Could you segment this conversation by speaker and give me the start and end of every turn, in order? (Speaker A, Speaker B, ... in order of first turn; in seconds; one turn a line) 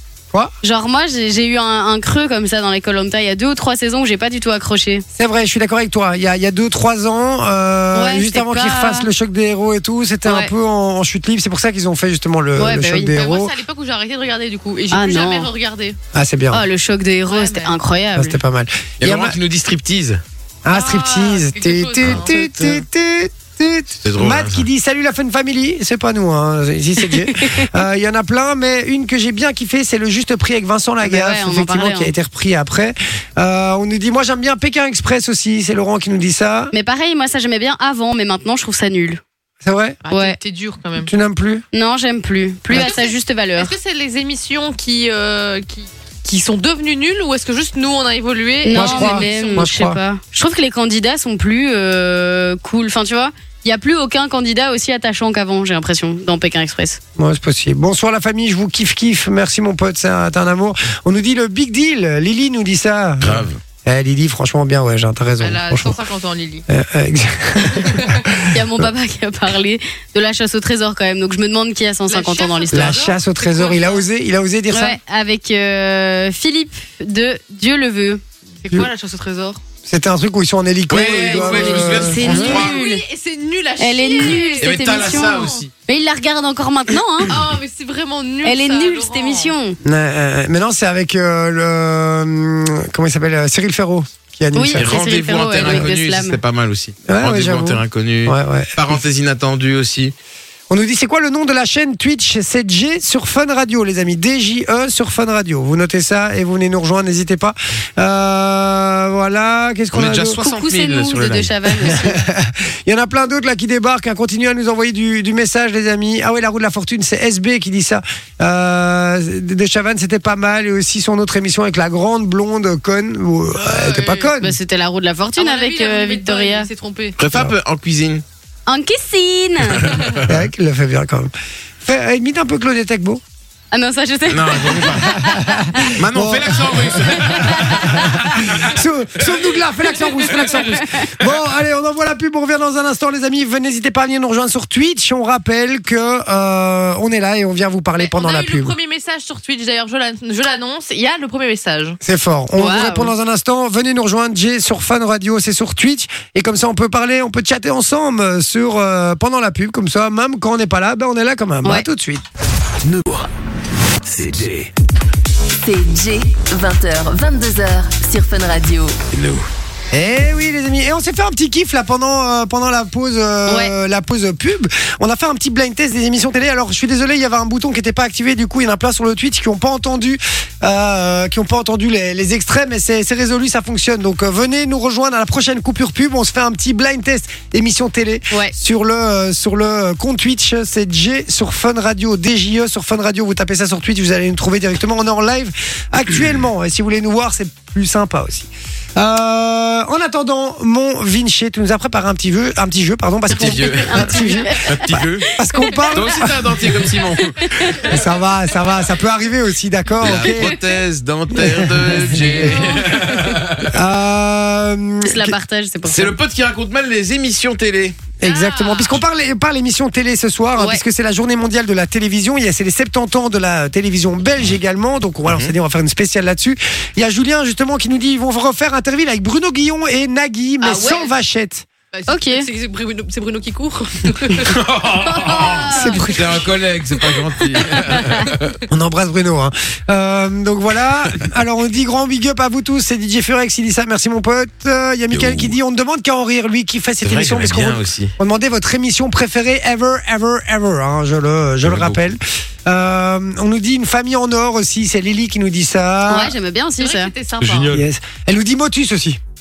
Speaker A: 0.6-5.0
Speaker B: 5.2-13.5
Speaker A: 7.9-9.1
Speaker A: 10.2-10.5
Speaker A: 12.6-13.1
Speaker C: 13.1-16.0
Speaker A: 14.9-15.5
Speaker B: 16.1-16.6
Speaker A: 16.5-18.4
Speaker C: 17.3-17.8
Speaker B: 18.1-19.4
Speaker D: 19.0-20.2
Speaker B: 20.6-36.7
Speaker C: 20.7-22.3
Speaker D: 22.0-22.8
Speaker D: 24.0-24.7
Speaker A: 31.0-32.1
Speaker A: 36.7-39.2
Speaker B: 39.6-40.0
Speaker C: 40.0-41.1
Speaker A: 40.1-40.4
Speaker B: 41.0-41.6
Speaker A: 41.7-43.7
Speaker C: 42.7-49.6
Speaker A: 48.6-57.0
Speaker B: 48.7-50.0
Speaker B: 57.2-66.0
Speaker D: 63.2-63.6
Speaker C: 65.4-66.6
Speaker B: 66.7-68.9
Speaker C: 67.7-68.2
Speaker A: 68.4-73.0
Speaker C: 72.1-74.0
Speaker B: 72.7-75.0
Speaker A: 74.7-78.2
Speaker C: 78.6-79.6
Speaker B: 79.8-82.5
Speaker D: 80.9-82.8
Speaker A: 81.1-83.0
Speaker C: 82.2-85.6
Speaker A: 83.8-87.4
Speaker D: 84.3-85.7
Speaker C: 87.3-89.5
Speaker A: 88.4-89.8
Speaker B: 89.8-94.9
Speaker A: 94.5-96.4
Speaker D: 94.7-100.1
Speaker B: 95.6-95.9
Speaker B: 97.1-99.0
Speaker B: 100.7-110.4
Speaker D: 109.9-111.5
Speaker A: 110.4-112.2
Speaker B: 111.8-124.6
Speaker C: 123.6-124.3
Speaker A: 124.4-126.7
Speaker C: 125.4-127.2
Speaker D: 127.2-128.2
Speaker A: 128.7-129.9
Speaker D: 129.7-130.4
Speaker B: 130.2-133.2
Speaker A: 133.7-136.0
Speaker D: 134.3-135.2
Speaker B: 135.0-148.8
Speaker D: 135.8-138.7
Speaker A: 137.3-138.3
Speaker C: 148.0-152.0
Speaker B: 152.0-162.2
Speaker A: 152.6-153.1
Speaker D: 162.8-163.3
Speaker D: 164.1-164.7
Speaker E: 165.6-169.0
Speaker D: 169.1-169.5
Speaker B: 169.9-206.4
Speaker A: 173.5-173.7
Speaker D: 203.3-205.3
Speaker A: 203.3-207.9
Speaker D: 205.9-207.9
Speaker B: 207.8-210.6
Speaker D: 210.0-213.8
Speaker C: 210.2-210.6
Speaker B: 211.3-212.8
Speaker C: 212.3-213.4
Speaker B: 213.7-215.3
Speaker A: 215.0-216.2
Speaker D: 215.8-218.0
Speaker B: 218.2-231.7
Speaker C: 218.2-219.0
Speaker D: 225.3-225.5
Speaker C: 230.6-231.1
Speaker C: 231.9-236.4
Speaker A: 232.1-232.5
Speaker D: 234.4-238.6
Speaker A: 235.4-236.0
Speaker B: 235.6-236.5
Speaker B: 238.7-256.4
Speaker D: 245.1-245.5
Speaker D: 247.0-248.1
Speaker D: 251.6-252.2
Speaker A: 256.1-257.1
Speaker C: 256.8-257.8
Speaker D: 257.4-257.9
Speaker B: 257.7-259.2